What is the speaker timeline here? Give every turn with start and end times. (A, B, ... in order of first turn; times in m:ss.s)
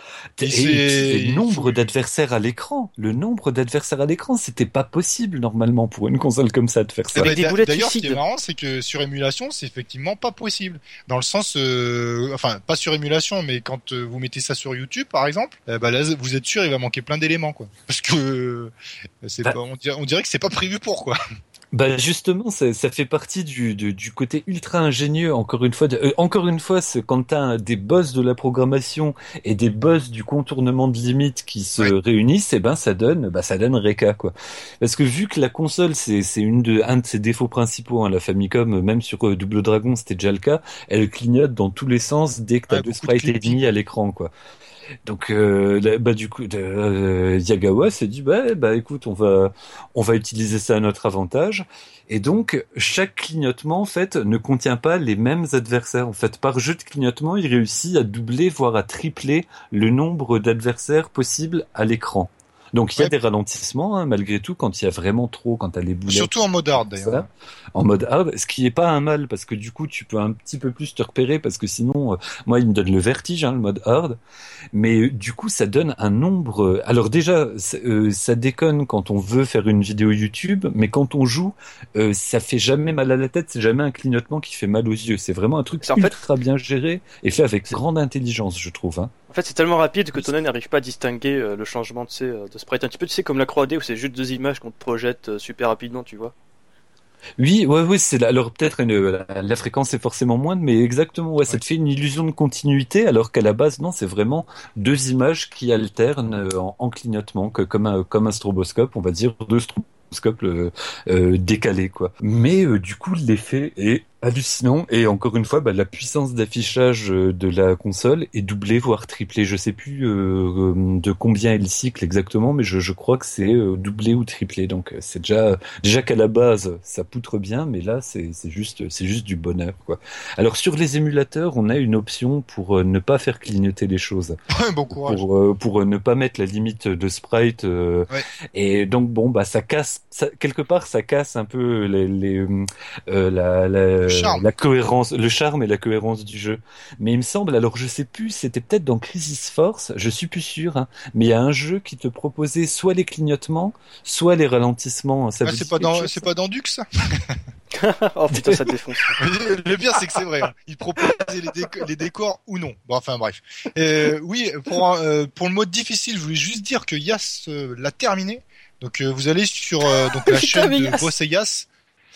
0:00.4-0:07.3 A
0:00.4-0:01.8 B
0:07.2-0:21.2 B
0:07.2-0:08.2 C
0:21.7-0:44.3 A
0:42.7-0:43.6 B
0:45.0-1:06.3 A
1:06.1-1:07.3 B
1:06.9-1:14.2 A
1:14.7-1:29.1 A
1:25.8-1:26.2 C
1:29.3-1:36.3 C
1:37.4-2:14.4 A
2:14.5-2:15.2 B
2:14.9-2:36.1 A
2:24.0-2:24.4 B
2:35.4-2:37.4 B
2:37.7-2:39.2 C
2:39.2-2:51.7 B
2:49.8-2:51.1 C